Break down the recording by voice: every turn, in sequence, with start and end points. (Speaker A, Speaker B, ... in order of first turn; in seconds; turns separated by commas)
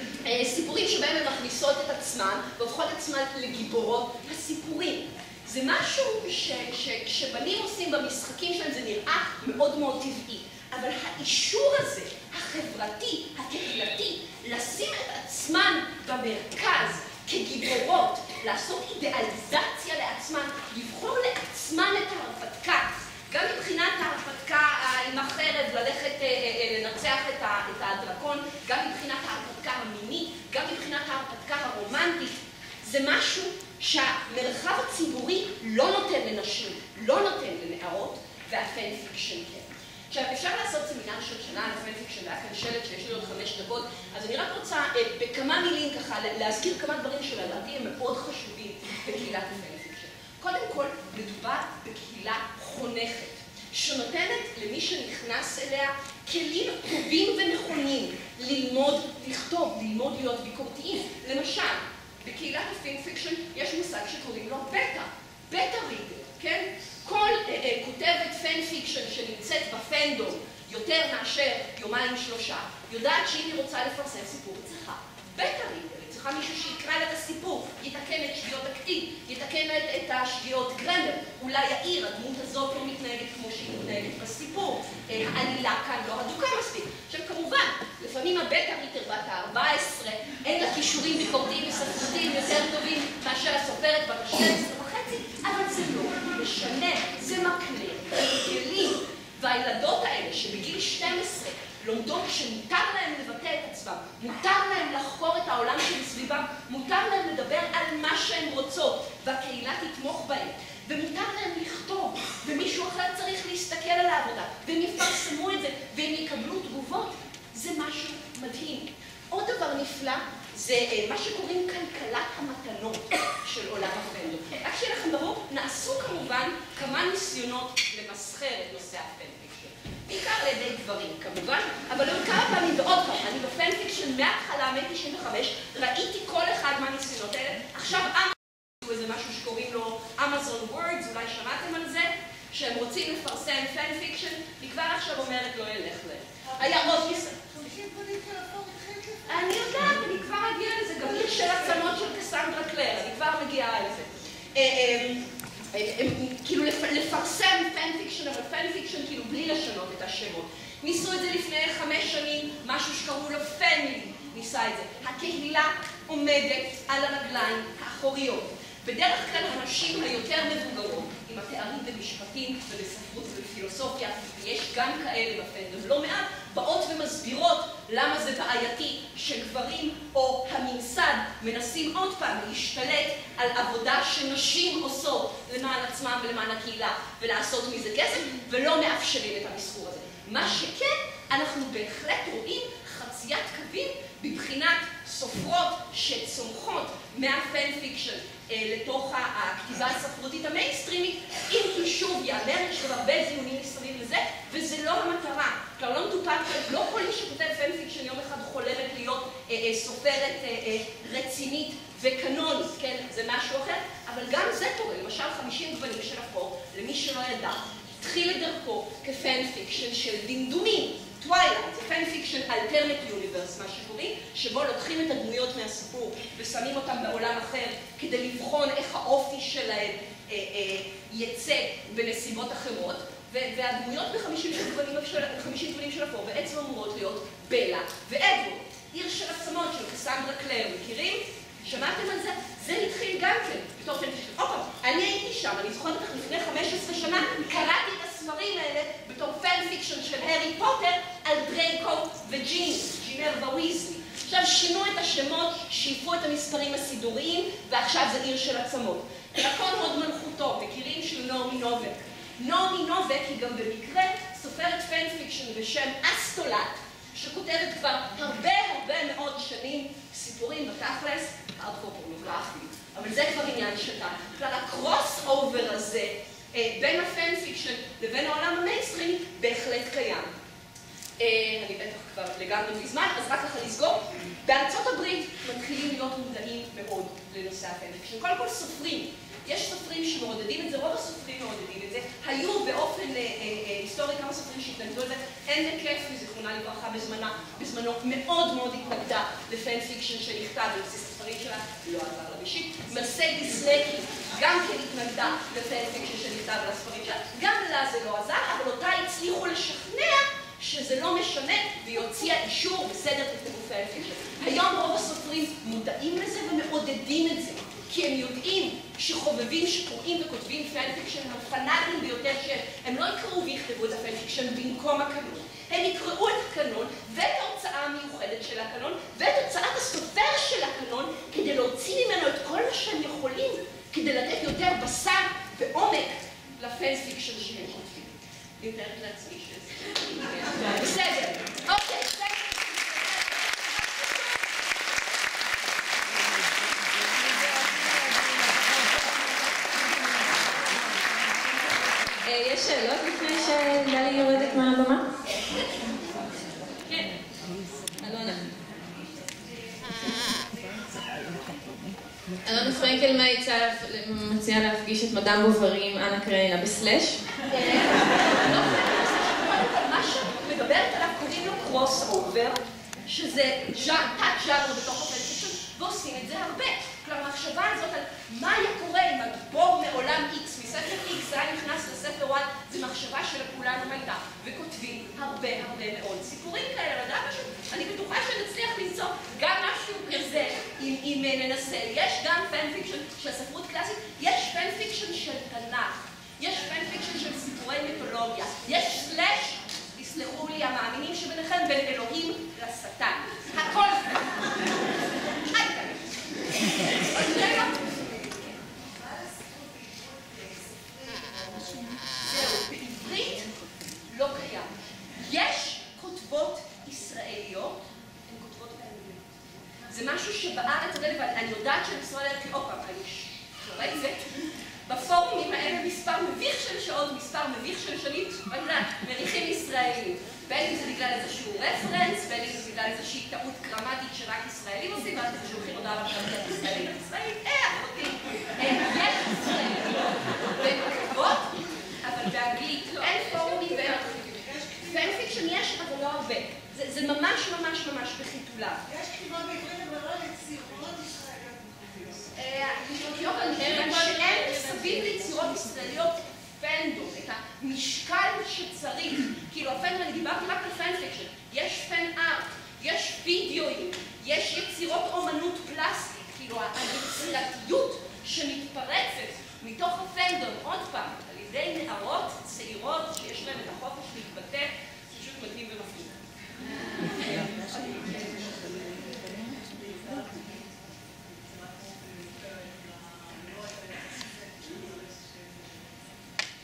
Speaker A: 0.2-147.3, Speaker B: 146.9-149.7, Speaker A: 149.3-280.3, Speaker A: 281.2-344.3, Speaker B: 347.0-349.4, Speaker B: 350.4-351.1, Speaker C: 352.2-355.1, Speaker B: 355.8-356.4, Speaker C: 358.0-358.5, Speaker B: 359.1-361.8, Speaker C: 362.4-367.2, Speaker A: 367.5-406.1, Speaker A: 407.0-407.8, Speaker B: 407.7-412.0, Speaker A: 412.2-413.5, Speaker A: 414.1-419.3, Speaker A: 419.9-424.3, Speaker A: 424.9-444.1, Speaker B: 443.1-445.3, Speaker A: 444.9-448.8, Speaker B: 448.9-452.4, Speaker A: 452.4-476.2, Speaker C: 453.1-455.1, Speaker B: 477.0-486.0